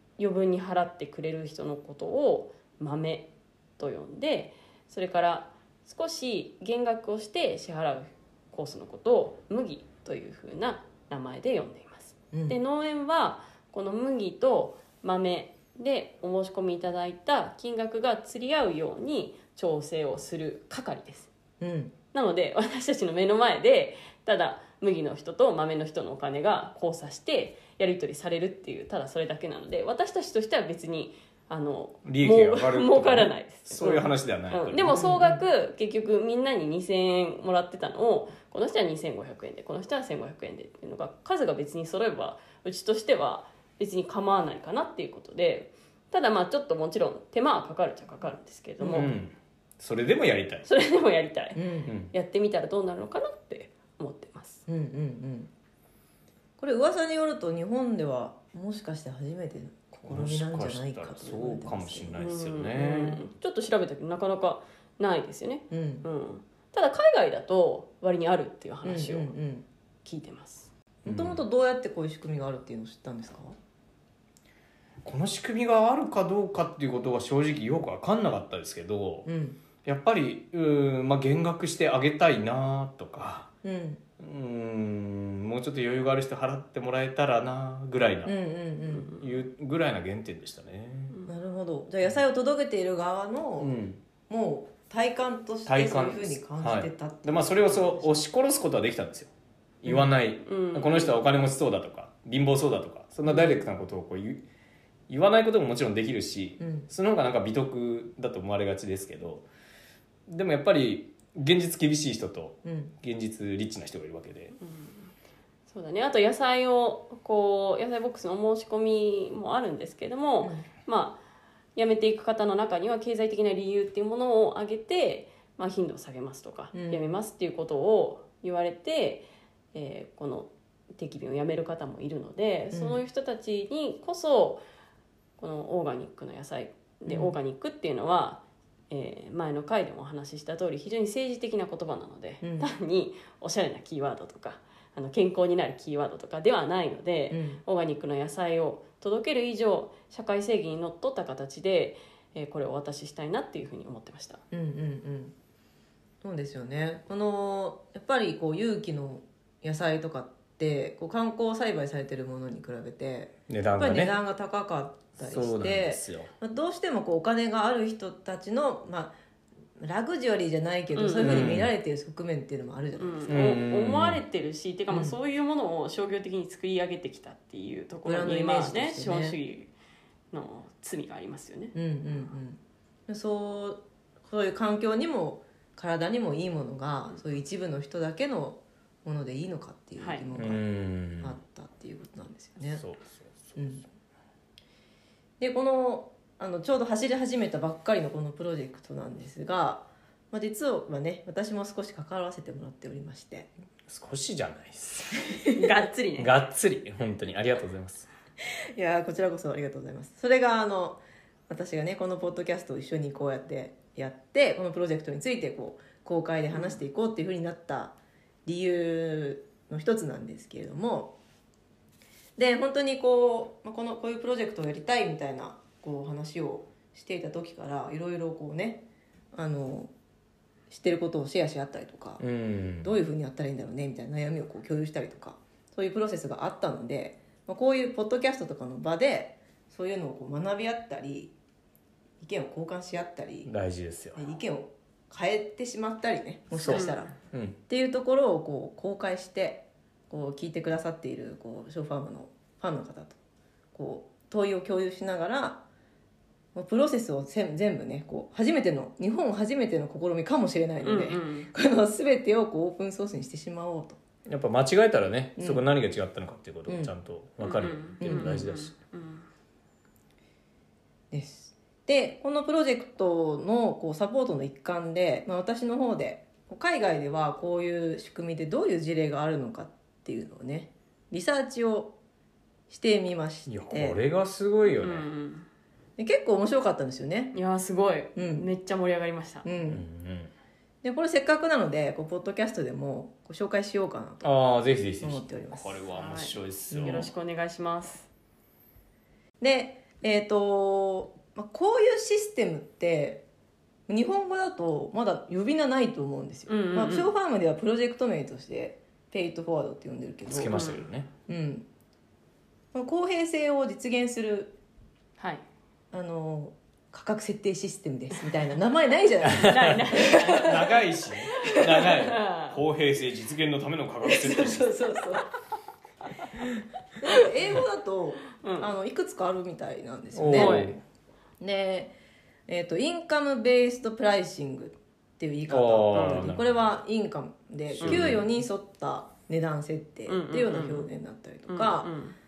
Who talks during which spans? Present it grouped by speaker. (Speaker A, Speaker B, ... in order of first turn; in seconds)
Speaker A: 0.2-21.3, 22.1-49.1, 50.6-54.6, 62.2-69.4, 70.0-70.7, 100.4-101.2, 114.6-115.1, 115.7-121.2, 121.7-134.6, 135.4-154.4, 170.9-171.5, 173.0-179.7, 180.3-181.7, 190.0-190.3, 205.5-206.3, 216.5-216.8, 246.7-247.1, 260.8-261.5, 267.4-269.3, 284.6-285.5, 287.3-289.4, 295.9-298.1, 306.5-307.1, 310.5-310.9, 315.2-315.4, 319.3-322.6, 328.4-328.7, 330.3-330.8, 335.9-336.3, 337.8-338.1, 340.1-340.9, 341.5-342.1
Speaker B: 12.3-12.6, 21.6-21.9, 34.9-35.4, 48.8-49.1, 51.5-51.9, 54.7-55.5, 56.6-62.2, 62.8-63.2, 65.7-66.0, 68.8-69.7, 71.0-73.5, 79.2-79.6, 83.6-84.0, 88.2-89.2, 91.3-93.7, 94.3-98.2, 106.6-106.9, 112.6-112.9, 126.7-127.1, 132.7-133.0, 137.1-137.3, 142.4-142.7, 147.3-147.6, 154.5-155.3, 156.2-169.1, 169.8-173.3, 174.9-175.2, 178.1-179.4, 181.7-192.8, 193.6-193.8, 195.4-203.5, 205.2-205.5, 208.7-221.1, 222.4-228.8, 229.3-229.9, 230.7-232.2, 232.8-241.3, 242.2-243.5, 244.1-247.1, 247.7-253.2, 253.7-255.6, 256.5-264.0, 265.4-265.6, 266.7-266.9, 268.0-268.4, 271.1-281.9, 282.7-284.0, 286.0-287.3, 288.1-288.5, 289.4-289.8, 290.8-294.3, 295.0-295.8, 296.7-297.0, 299.4-303.2, 303.9-310.6, 311.3-311.7, 312.7-314.6, 315.9-320.7, 324.0-325.3, 327.0-330.7, 331.4-331.9, 332.5-341.9
Speaker C: 32.0-35.0, 48.9-50.7, 51.9-52.1, 60.0-63.0, 71.0-71.4, 75.0-79.3, 79.8-83.5, 84.2-88.3, 89.1-91.2, 93.6-94.0, 95.7-99.3, 99.8-104.4, 105.1-109.5, 110.3-114.5, 163.5-164.2, 165.2-166.3, 171.2-171.7, 173.3-174.2, 190.4-191.4, 192.7-193.7, 203.9-205.2, 206.2-208.1, 232.2-232.9, 243.4-244.2, 246.6-247.6, 264.2-268.7, 283.5-285.1, 289.6-290.3, 294.2-297.1, 310.2-311.1, 319.3-324.7, 330.1-330.8, 335.5-336.6, 337.7-338.2